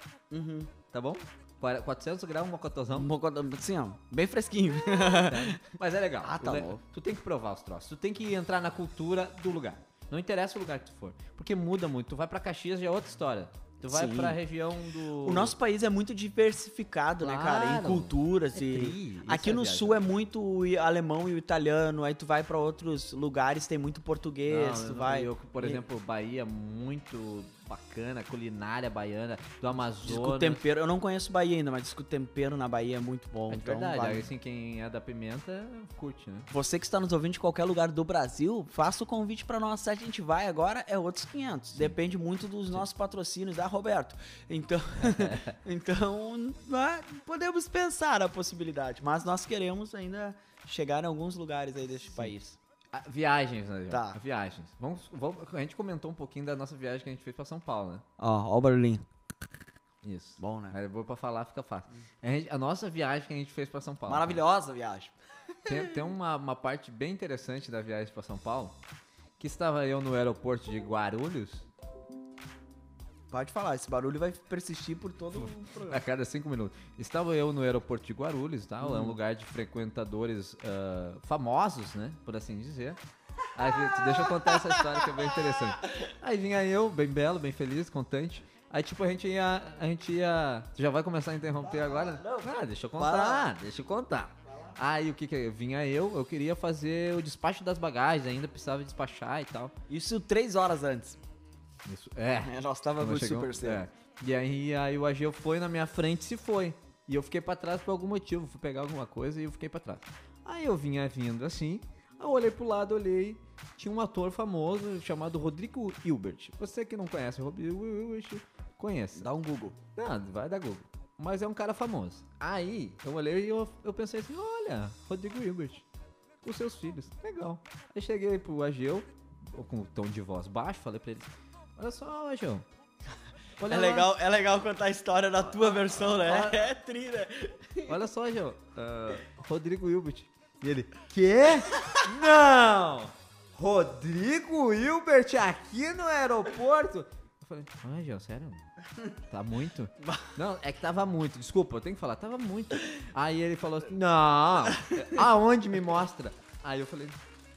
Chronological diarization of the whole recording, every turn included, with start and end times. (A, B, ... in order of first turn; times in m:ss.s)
0:00.3-0:00.7 A
0:00.9-0:03.1 B
0:02.9-0:05.6 A
0:04.9-0:15.6 B
0:06.2-0:06.8 A
0:13.8-0:14.4 A
0:15.2-0:25.8 A
0:17.2-0:20.0 B
0:24.5-0:30.6 B
0:30.0-0:34.3 A
0:33.5-0:36.5 B
0:36.5-0:52.6 A
0:45.0-0:45.6 B
0:52.9-0:58.0 B
0:53.9-0:54.2 A
0:58.2-0:59.0 A
1:00.0-1:04.4 B
1:00.4-1:00.8 A
1:04.1-1:05.2 A
1:05.6-1:08.8 B
1:05.7-1:06.0 A
1:09.4-1:11.7 B
1:13.3-1:16.0 A
1:15.4-1:23.0 B
1:18.8-1:19.2 A
1:23.5-1:39.7 B
1:23.6-1:25.7 A
1:31.6-1:33.5 A
1:39.9-1:41.2 A
1:41.9-1:59.3 B
1:42.4-1:43.8 A
1:59.2-1:59.8 A
2:00.0-2:05.8 B
2:06.4-2:12.7 B
2:13.6-2:14.1 B
2:13.7-2:18.0 A
2:15.7-2:16.7 B
2:17.9-2:28.6 B
2:21.8-2:22.0 A
2:29.3-2:37.2 B
2:30.0-2:30.3 A
2:34.7-2:35.2 A